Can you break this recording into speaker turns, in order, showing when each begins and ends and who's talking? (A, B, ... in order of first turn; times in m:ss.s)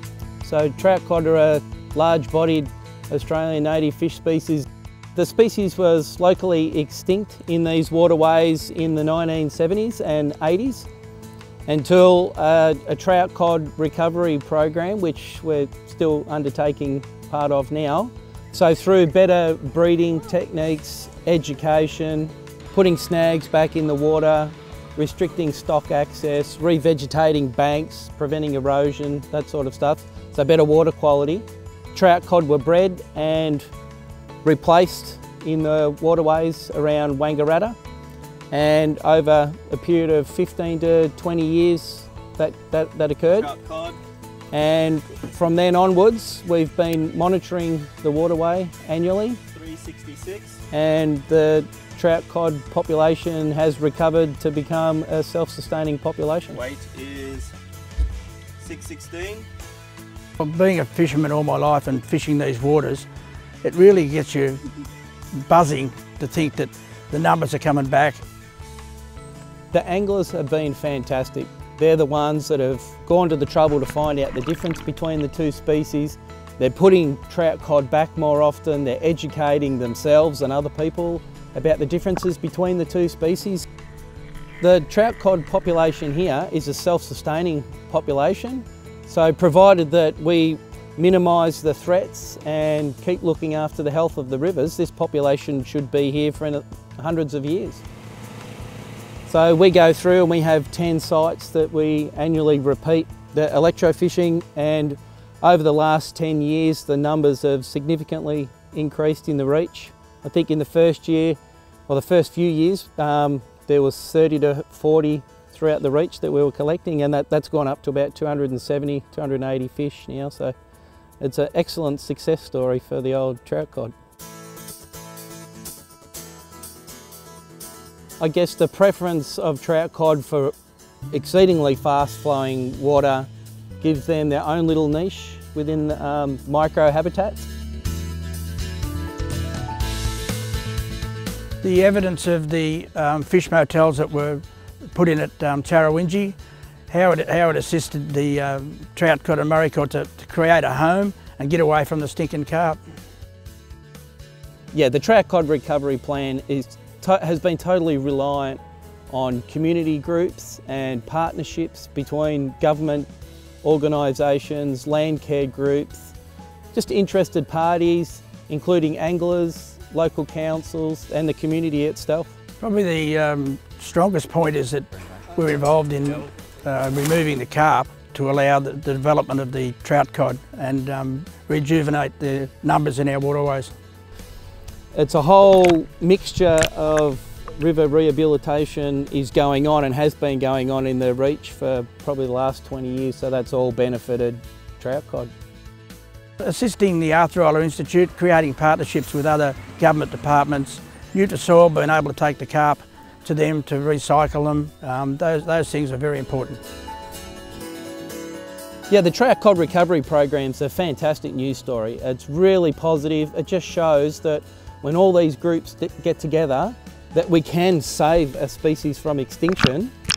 0:00.4-0:10.9 A
0:11.7-0:33.7 A
0:34.4-0:37.8 A
0:38.5-0:43.5 A
0:43.4-0:44.0 B
0:44.5-0:49.4 A
0:49.5-0:50.6 B
0:50.7-0:56.6 A
0:56.5-0:57.5 B
0:58.6-0:59.5 B
1:00.4-1:03.1 C
1:03.6-1:04.6 C
1:05.3-1:08.2 C
1:09.7-1:23.7 A
1:24.6-1:37.8 A
1:39.3-2:00.6 A
2:01.2-2:03.9 A
2:08.2-2:10.5 A
2:11.1-2:13.3 A
2:13.8-2:17.5 A
2:21.6-2:26.4 C
2:26.9-2:32.8 C
2:34.7-2:43.1 A
2:43.6-2:46.2 A
2:46.7-2:52.3 A
2:52.6-3:03.7 C
3:04.9-3:15.3 A
3:16.4-3:26.6 C
3:28.9-3:39.9 A